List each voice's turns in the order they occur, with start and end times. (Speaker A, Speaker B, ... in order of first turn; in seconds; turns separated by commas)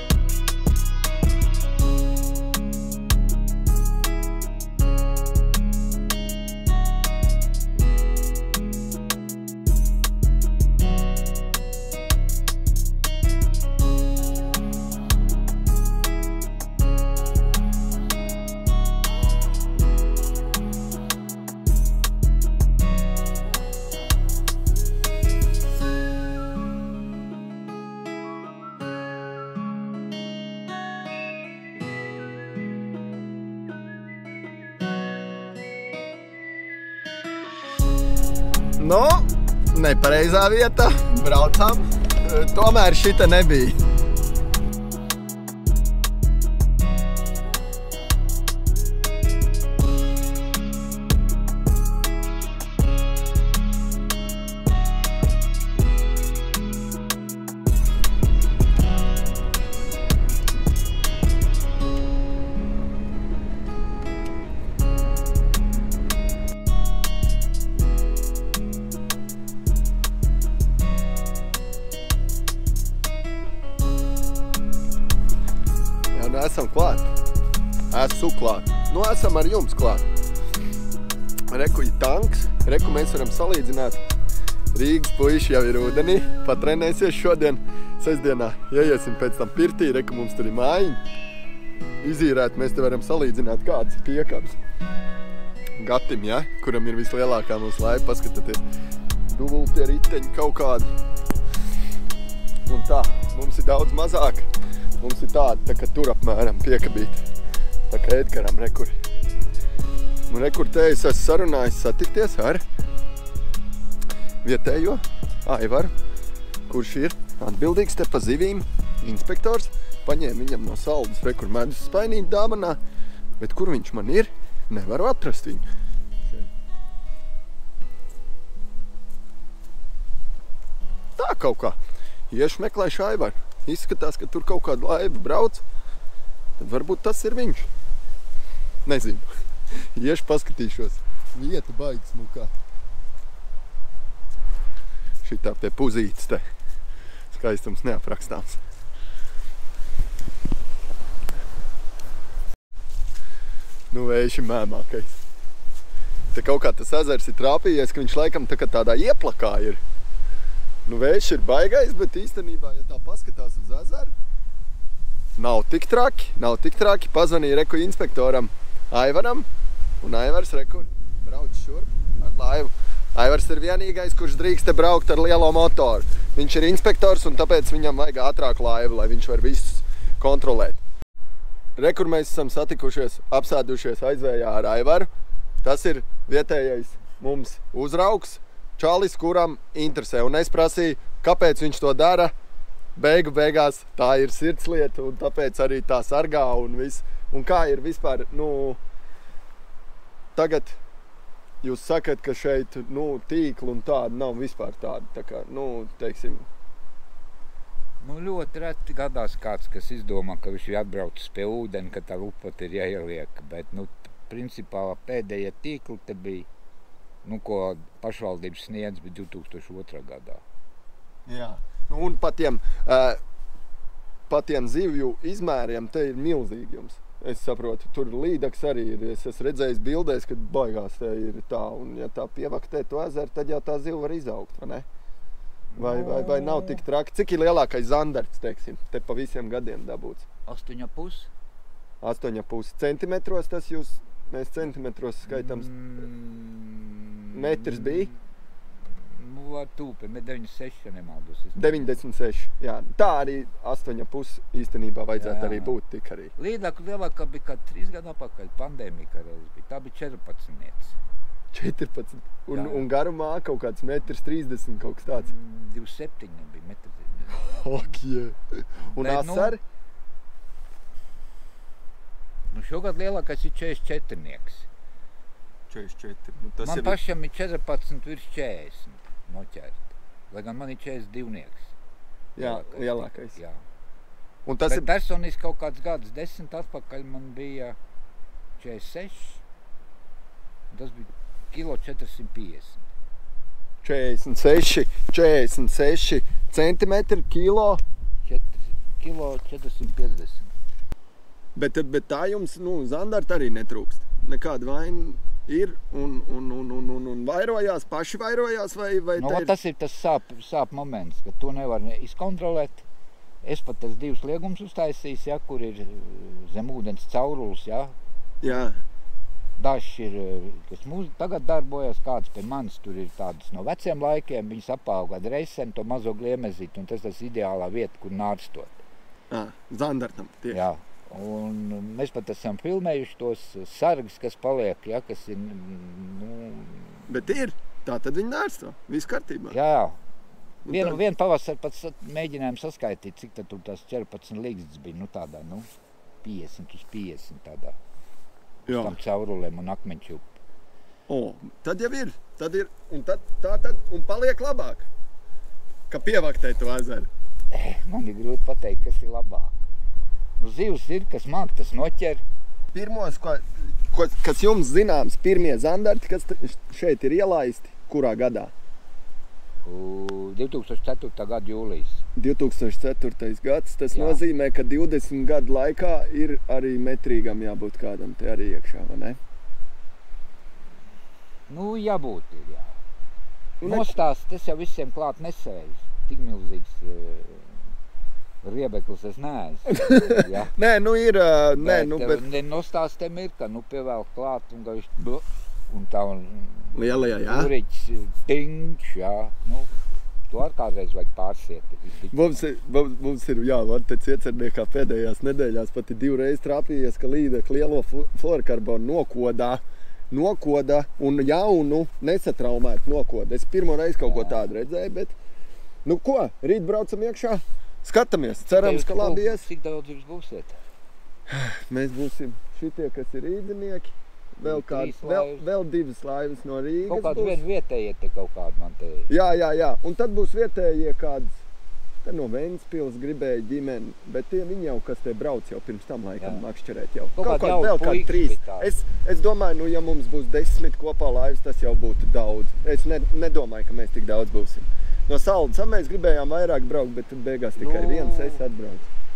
Speaker A: 38.8-43.8, Speaker A: 76.1-77.1, Speaker A: 77.9-80.0, Speaker A: 81.5-84.0, Speaker A: 84.7-91.0, Speaker A: 92.0-94.6, Speaker A: 95.8-98.6, Speaker A: 99.3-100.9, Speaker A: 102.7-104.5, Speaker A: 105.0-107.2, Speaker A: 107.9-108.9, Speaker A: 110.3-112.6, Speaker A: 114.4-115.9, Speaker A: 116.7-122.8, Speaker A: 123.4-125.6, Speaker A: 131.2-131.8, Speaker A: 132.3-135.6, Speaker A: 136.6-137.7, Speaker A: 138.8-139.3, Speaker A: 139.9-142.5, Speaker A: 145.2-146.4, Speaker A: 147.3-148.6, Speaker A: 153.9-155.1, Speaker A: 156.3-159.8, Speaker A: 160.8-164.1, Speaker A: 165.4-169.5, Speaker A: 170.0-180.8, Speaker A: 181.8-185.1, Speaker A: 185.6-192.3, Speaker A: 192.9-198.8, Speaker A: 200.3-200.8, Speaker A: 201.6-206.4, Speaker B: 208.0-216.5, Speaker B: 217.2-220.4, Speaker A: 221.2-223.2, Speaker A: 224.3-234.8, Speaker B: 235.7-236.8, Speaker A: 235.8-240.2, Speaker B: 240.4-241.3, Speaker A: 242.0-245.7, Speaker B: 245.2-248.1, Speaker A: 247.3-248.1, Speaker B: 249.0-252.0, Speaker A: 251.5-256.3, Speaker B: 255.2-255.7, Speaker B: 256.4-260.9, Speaker A: 261.5-265.3, Speaker B: 262.5-262.9, Speaker B: 265.1-267.9, Speaker A: 267.3-269.6, Speaker B: 268.9-269.6, Speaker B: 272.5-274.7, Speaker A: 275.7-277.0, Speaker B: 276.6-279.8, Speaker B: 280.3-281.7, Speaker A: 282.4-283.4, Speaker B: 282.4-283.6, Speaker A: 284.4-284.9, Speaker B: 284.6-287.8, Speaker B: 288.6-289.4, Speaker B: 290.7-292.8, Speaker A: 293.8-297.8, Speaker B: 298.2-300.5, Speaker A: 301.6-309.5, Speaker B: 309.1-312.8, Speaker B: 313.4-317.9, Speaker A: 318.4-318.8, Speaker B: 319.6-328.8, Speaker A: 329.3-330.6, Speaker B: 330.5-337.1, Speaker A: 337.1-339.6, Speaker B: 339.5-340.0, Speaker A: 340.6-341.0, Speaker B: 340.7-345.7, Speaker B: 346.2-347.8, Speaker A: 348.6-348.9, Speaker B: 348.7-350.4, Speaker A: 351.1-354.9, Speaker A: 355.9-357.1, Speaker B: 357.5-359.5, Speaker B: 360.4-362.2, Speaker A: 362.7-368.5, Speaker B: 369.6-372.0, Speaker A: 372.1-379.2, Speaker B: 373.9-374.2, Speaker B: 381.5-382.8, Speaker A: 383.6-384.0, Speaker B: 383.6-387.7, Speaker B: 388.4-390.5, Speaker A: 389.7-392.2, Speaker B: 391.5-399.7, Speaker A: 396.7-397.5, Speaker B: 400.3-402.4, Speaker A: 402.1-415.1, Speaker B: 414.0-414.5, Speaker A: 415.8-419.4, Speaker B: 418.4-420.6, Speaker A: 421.3-427.4, Speaker B: 424.4-425.5, Speaker B: 426.9-429.1, Speaker A: 429.1-431.4, Speaker A: 432.0-448.9, Speaker B: 436.2-436.4, Speaker B: 437.1-438.8, Speaker B: 447.6-448.4